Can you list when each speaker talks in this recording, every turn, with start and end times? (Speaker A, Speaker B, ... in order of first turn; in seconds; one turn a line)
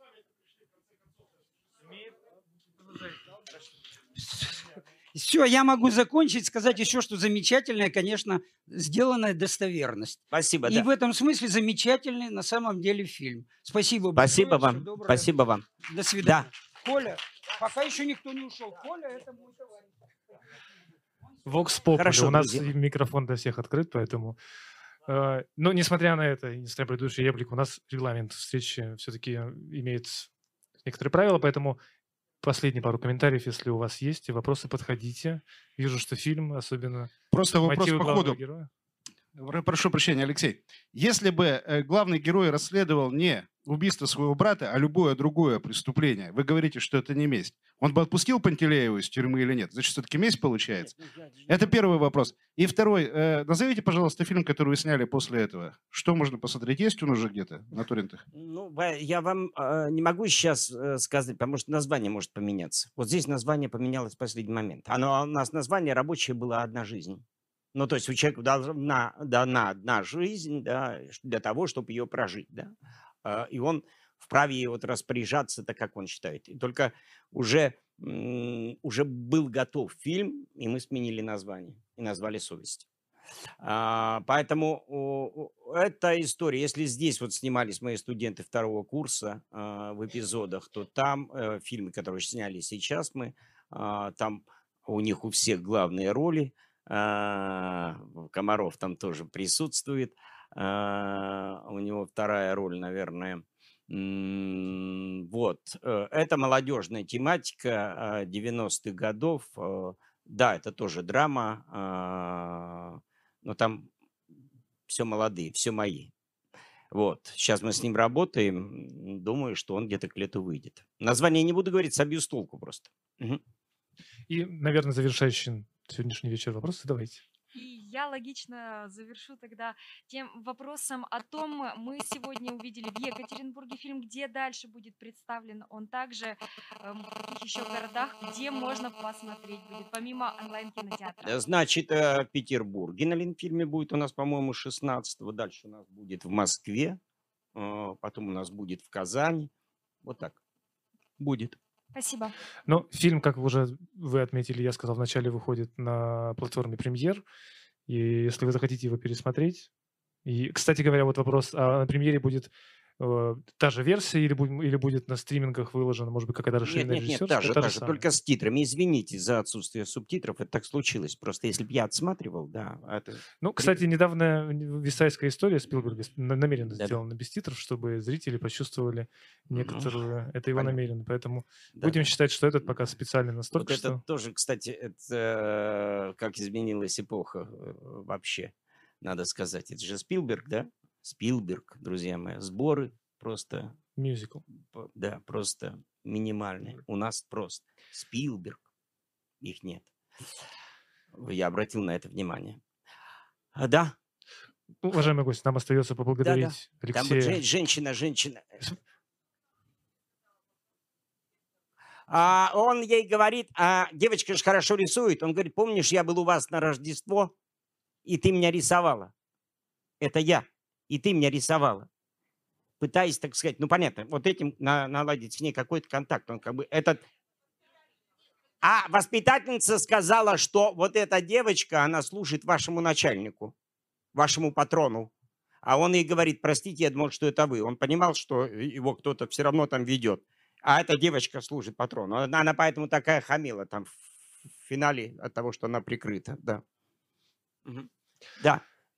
Speaker A: 4.2-15.3
Speaker B: 10.3-10.9
Speaker B: 14.2-15.7
Speaker A: 15.8-19.9
Speaker B: 16.2-16.5
Speaker C: 21.5-24.4
Speaker B: 21.9-22.7
Speaker C: 25.1-30.3
Speaker C: 30.9-31.8
Speaker C: 32.4-37.1
Speaker D: 37.3-38.4
Speaker C: 37.6-38.7
Speaker D: 39.4-51.0
Speaker B: 51.0-51.6
Speaker D: 51.5-58.2
Speaker B: 58.3-67.2
Speaker B: 67.7-72.7
Speaker B: 73.2-82.9
Speaker B: 83.6-113.9
Speaker B: 114.9-116.1
Speaker B: 116.9-123.4
Speaker C: 124.3-127.2
Speaker E: 127.5-141.4
Speaker B: 141.2-147.0
Speaker B: 147.6-149.5
Speaker B: 150.0-150.4
Speaker B: 151.2-151.6
Speaker E: 151.9-152.3
Speaker C: 152.7-157.2
Speaker C: 157.9-159.7
Speaker C: 160.2-168.0
Speaker B: 166.7-173.8
Speaker C: 173.4-184.0
Speaker B: 176.7-177.0
Speaker B: 179.5-179.9
Speaker B: 180.5-180.8
Speaker B: 181.8-182.1
Speaker B: 183.5-193.8
Speaker C: 194.0-194.4
Speaker B: 194.7-198.6
Speaker B: 199.4-199.9
Speaker B: 201.1-202.6
Speaker B: 203.6-203.9
Speaker C: 204.8-207.4
Speaker B: 206.2-208.6
Speaker B: 212.1-217.3
Speaker B: 218.1-219.1
Speaker B: 220.0-221.9
Speaker B: 222.8-227.1
Speaker B: 228.6-233.5
Speaker B: 234.2-235.1
Speaker B: 235.6-246.6
Speaker B: 248.4-248.6